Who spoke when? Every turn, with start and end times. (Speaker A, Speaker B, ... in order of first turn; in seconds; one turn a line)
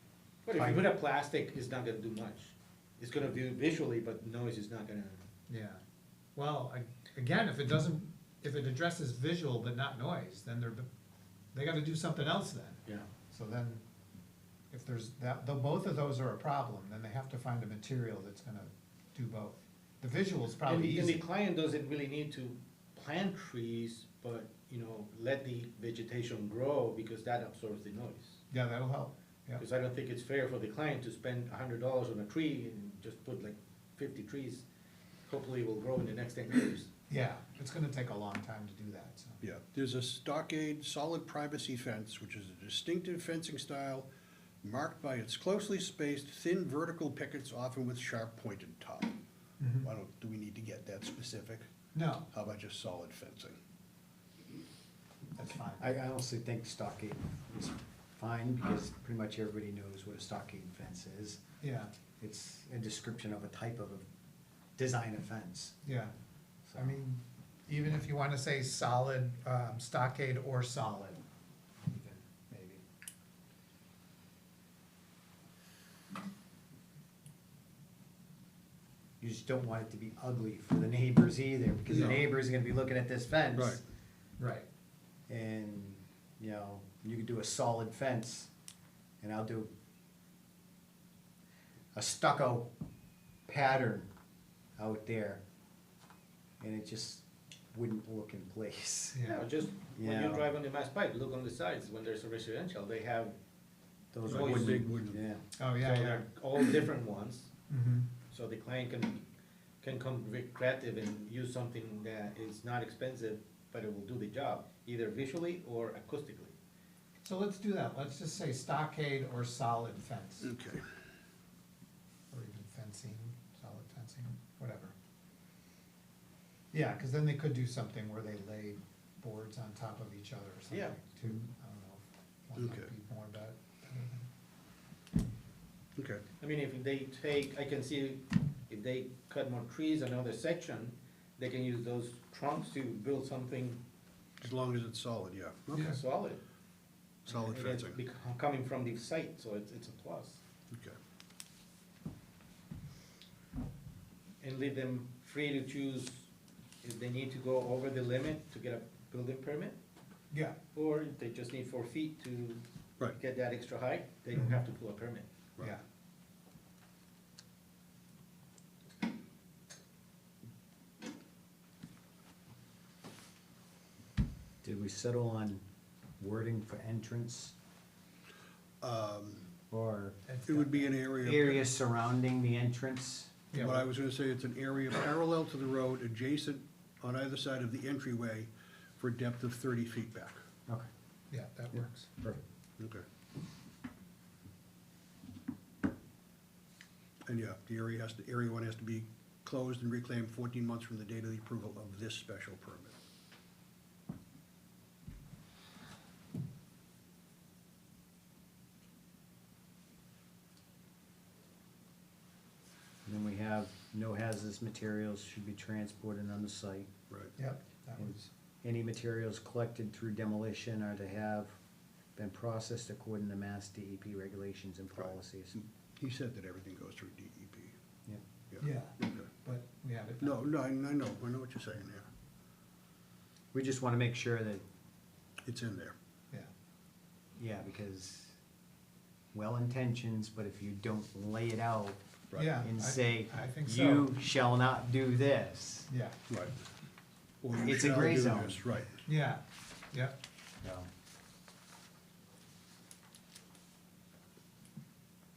Speaker A: 0.5-5.2
Speaker B: 0.6-0.8
Speaker C: 5.5-5.8
Speaker C: 6.4-10.9
Speaker C: 11.5-13.8
Speaker C: 14.7-21.2
Speaker A: 20.6-28.4
Speaker C: 28.5-29.6
Speaker A: 29.6-34.6
Speaker A: 35.3-36.9
Speaker C: 37.1-39.4
Speaker D: 39.4-44.1
Speaker D: 44.6-49.1
Speaker C: 49.6-49.9
Speaker D: 49.8-51.6
Speaker C: 51.9-52.3
Speaker D: 52.3-53.6
Speaker C: 55.4-55.9
Speaker B: 55.8-61.4
Speaker C: 61.6-61.9
Speaker B: 62.2-64.1
Speaker B: 64.8-65.8
Speaker C: 65.8-66.1
Speaker B: 66.7-66.9
Speaker C: 66.8-71.3
Speaker C: 71.8-72.8
Speaker B: 79.2-83.8
Speaker D: 81.9-82.2
Speaker C: 84.4-84.7
Speaker B: 85.3-88.5
Speaker B: 89.2-89.7
Speaker B: 91.9-92.7
Speaker B: 93.5-94.1
Speaker B: 94.8-95.4
Speaker B: 96.6-99.3
Speaker C: 99.1-99.4
Speaker A: 99.3-103.4
Speaker B: 99.9-100.5
Speaker B: 104.1-105.4
Speaker A: 104.3-104.9
Speaker D: 104.3-105.2
Speaker C: 105.5-106.2
Speaker A: 105.8-107.5
Speaker C: 107.7-108.1
Speaker A: 108.3-109.2
Speaker A: 109.8-116.5
Speaker C: 117.2-120.5
Speaker D: 120.4-120.8
Speaker C: 122.3-125.0
Speaker C: 126.7-134.3
Speaker A: 130.7-131.0
Speaker D: 132.6-132.9
Speaker D: 136.0-136.2
Speaker A: 136.4-143.8
Speaker D: 144.4-146.0
Speaker C: 145.7-146.0
Speaker A: 145.8-146.4
Speaker D: 147.3-148.0
Speaker A: 147.3-150.4
Speaker D: 150.7-151.0
Speaker A: 154.4-156.3
Speaker A: 156.8-159.8
Speaker C: 160.3-160.6
Speaker A: 160.7-165.3
Speaker C: 164.3-164.6
Speaker B: 174.6-175.6
Speaker B: 176.2-177.6
Speaker D: 178.8-179.5
Speaker B: 179.7-180.2
Speaker C: 180.3-180.9
Speaker D: 180.5-181.7
Speaker B: 181.1-183.4
Speaker C: 183.5-183.9
Speaker D: 183.6-190.4
Speaker C: 191.3-192.1
Speaker B: 191.7-192.4
Speaker D: 192.8-193.0
Speaker D: 197.3-202.9
Speaker B: 213.1-216.9
Speaker C: 217.4-218.2
Speaker B: 218.0-221.6
Speaker B: 222.2-225.6
Speaker D: 225.0-227.7
Speaker D: 228.5-229.3
Speaker C: 228.6-230.4
Speaker D: 230.2-232.1
Speaker B: 233.5-234.6
Speaker D: 235.4-235.9
Speaker B: 237.4-238.4
Speaker B: 239.3-242.0
Speaker C: 242.3-244.1
Speaker B: 242.6-245.9
Speaker C: 245.9-246.2
Speaker D: 246.3-246.7
Speaker D: 247.4-249.0
Speaker B: 247.6-248.6
Speaker C: 249.1-250.2
Speaker B: 250.6-250.9